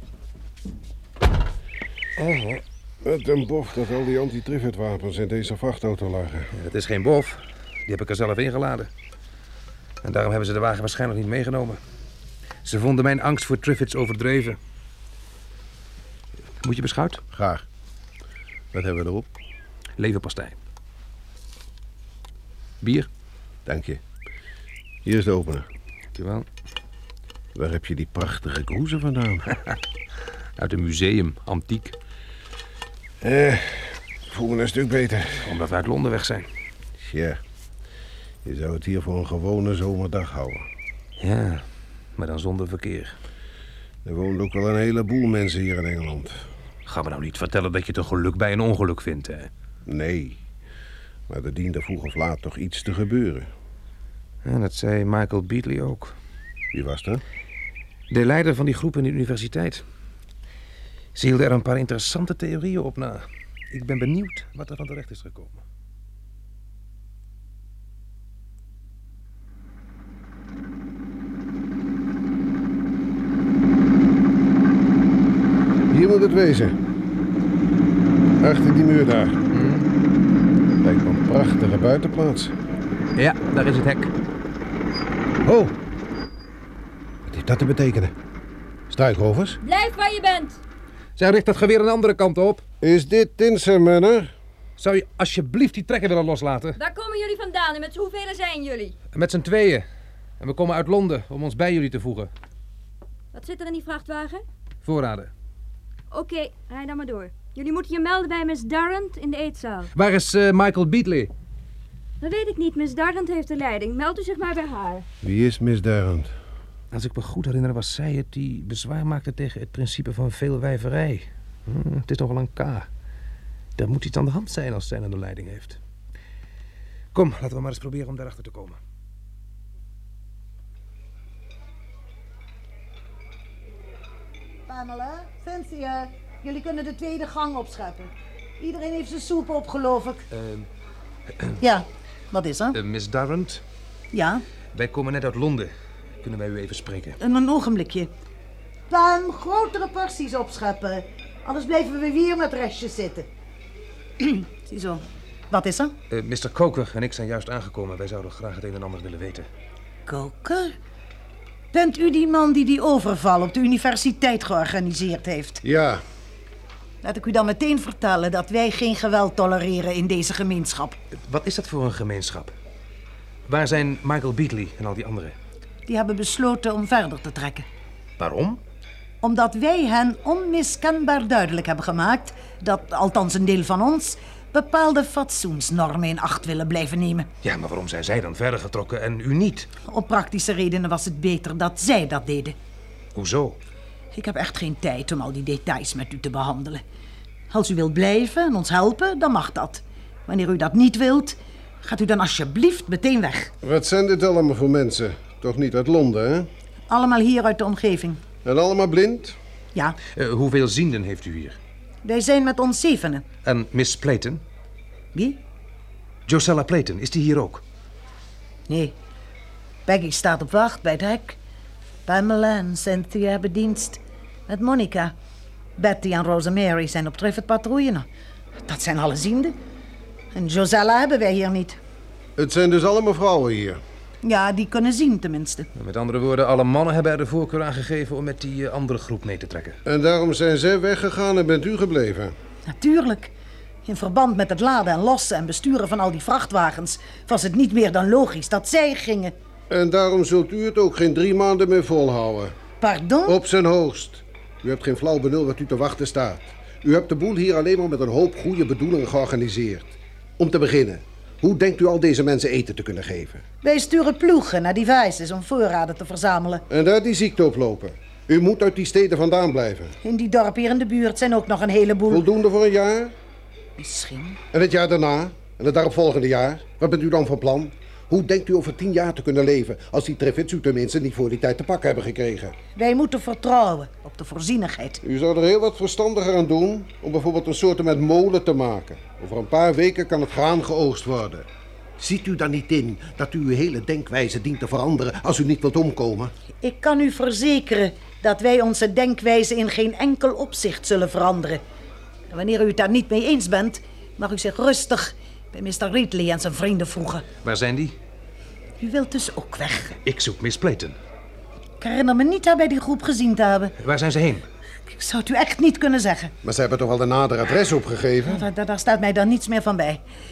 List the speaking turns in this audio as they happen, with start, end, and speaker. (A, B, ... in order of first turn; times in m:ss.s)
0:02.2-0:02.6 A
0:03.0-0:06.5 B
0:06.5-0:08.9 A
0:10.0-0:11.8 A
0:12.6-0:14.6 A
0:16.6-0:17.2 A
0:17.3-0:17.6 B
0:18.7-0:19.3 B
0:20.0-0:20.6 A
0:22.8-0:23.1 A
0:23.6-0:24.0 B
0:25.0-0:25.6 B
0:26.1-0:26.4 A
0:27.5-0:29.5 B
0:30.6-0:32.0 A
0:33.2-0:35.5 B
0:35.4-0:36.5 A
0:37.0-0:37.4 B
0:38.4-0:40.7 B
0:41.2-0:41.6 A
0:42.2-0:43.2 A
0:44.0-0:46.4 B
0:46.8-0:49.5 A
0:49.8-0:50.4 B
0:51.3-0:53.5 B
0:54.4-0:56.1 A
0:56.7-0:57.2 B
0:58.1-0:59.8 A
1:01.1-1:05.6 A
1:15.9-1:16.8 B
1:18.4-1:19.4 B
1:19.5-1:19.8 A
1:20.8-1:22.5 B
1:23.2-1:24.1 A
1:25.4-1:25.7 B
1:27.3-1:28.1 B
1:28.9-1:29.6 B
1:29.6-1:30.6 C
1:31.2-1:32.6 A
1:32.8-1:34.3 B
1:34.8-1:36.8 A
1:36.8-1:38.9 C
1:39.1-1:39.8 A
1:40.4-1:42.3 A
1:43.3-1:44.4 C
1:44.8-1:45.3 A
1:46.1-1:49.9 C
1:49.9-1:51.3 A
1:52.2-1:55.0 C
1:55.2-1:56.3 B
1:56.9-2:02.9 A
2:03.8-2:05.8 A
2:07.1-2:08.8 A
2:14.7-2:20.2 D
2:20.3-2:20.7 A
2:21.6-2:22.8 D
2:22.7-2:23.6 A
2:24.1-2:24.4 D
2:24.7-2:25.7 A
2:26.2-2:27.2 A
2:27.2-2:28.1 D
2:28.9-2:33.3 D
2:34.2-2:35.9 D
2:36.1-2:39.5 A
2:40.0-2:40.7 D
2:41.7-2:45.6 D
2:45.6-2:46.0 B
2:47.0-2:51.0 D
2:51.1-2:52.5 A
2:53.5-2:55.4 A
2:55.9-2:57.6 D
2:58.2-2:58.6 A
2:59.2-3:07.3 D
3:07.4-3:09.7 A
3:09.8-3:12.6 D
3:13.1-3:13.6 A
3:14.1-3:16.8 D
3:17.5-3:23.5 D
3:23.6-3:26.5 B
3:26.9-3:28.2 D
3:28.4-3:29.4 B
3:30.1-3:31.6 A
3:32.0-3:33.2 D
3:33.4-3:34.4 A
3:35.1-3:35.4 D
3:36.2-3:37.6 A
3:38.7-3:38.9 D
3:39.8-3:41.4 D
3:42.0-3:45.1 D
3:45.8-3:48.1 D
3:48.6-3:49.6 D
3:50.3-3:51.8 D
3:52.4-3:53.8 B
3:54.2-3:55.7 D
3:55.7-3:59.8 A
3:59.8-4:02.3 B
4:02.7-4:03.3 D
4:03.8-4:09.3 D
4:09.7-4:12.6 B
4:12.8-4:13.4 D
4:13.2-4:23.4 B
4:23.6-4:26.6 D
4:26.7-4:30.0 B
4:30.0-4:32.2 D
4:32.1-4:33.1 B
4:33.8-4:34.4 D
4:34.5-4:42.6 B
4:42.7-4:45.0 D
4:45.0-4:51.5 B
4:52.0-4:56.3 B
4:56.6-5:01.6 D
5:02.3-5:07.2 D
5:07.4-5:08.0 A
5:08.8-5:10.0 D
5:10.0-5:11.0 A
5:11.8-5:13.7 D
5:13.8-5:14.4 A
5:14.9-5:16.3 D
5:16.4-5:18.4 B
5:18.3-5:20.0 D